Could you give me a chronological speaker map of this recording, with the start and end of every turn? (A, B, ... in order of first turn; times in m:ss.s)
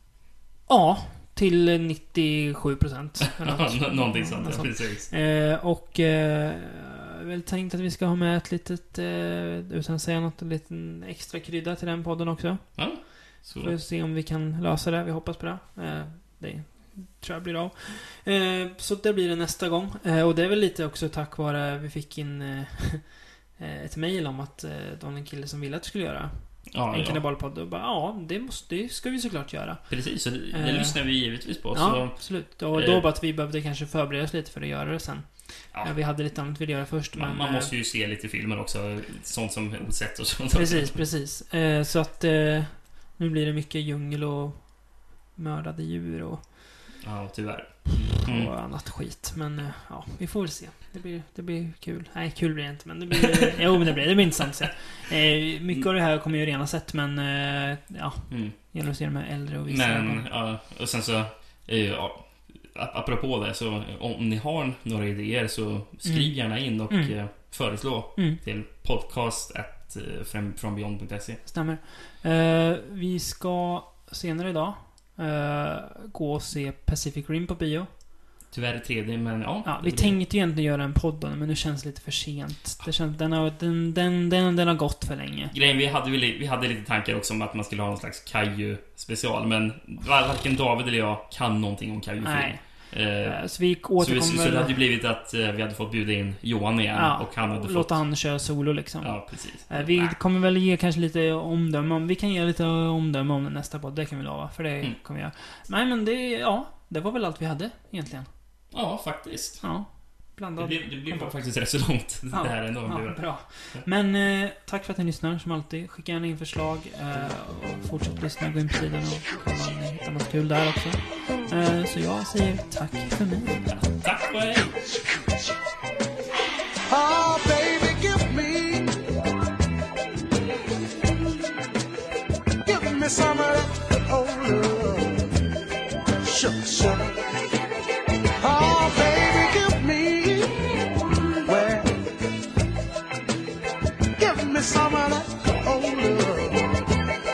0:00.7-0:37.7 A
0:03.3-0:05.1 B
0:12.8-0:13.8 B
0:26.7-0:27.2 B
0:29.9-0:33.0 B
0:35.7-0:36.6 B
0:37.1-0:41.0 B
0:40.5-0:46.9 A
0:47.0-0:48.6 B
0:48.0-1:00.3 A
0:53.3-0:53.6 B
0:58.3-0:58.6 B
0:59.7-1:11.4 B
1:06.0-1:07.6 A
1:08.2-1:08.4 A
1:11.4-1:17.9 A
1:18.5-1:20.2 B
1:19.6-1:25.5 A
1:25.5-1:38.2 B
1:32.2-1:34.8 A
1:36.9-1:48.3 A
1:39.0-1:40.2 B
1:48.7-1:49.8 B
1:49.6-2:03.8 A
1:50.6-1:53.8 B
2:03.7-2:04.7 B
2:06.9-2:09.0 C
2:12.6-2:15.3 C
2:16.2-2:17.2 C
2:18.4-2:20.7 C
2:21.4-2:22.0 C
2:24.2-2:26.8 C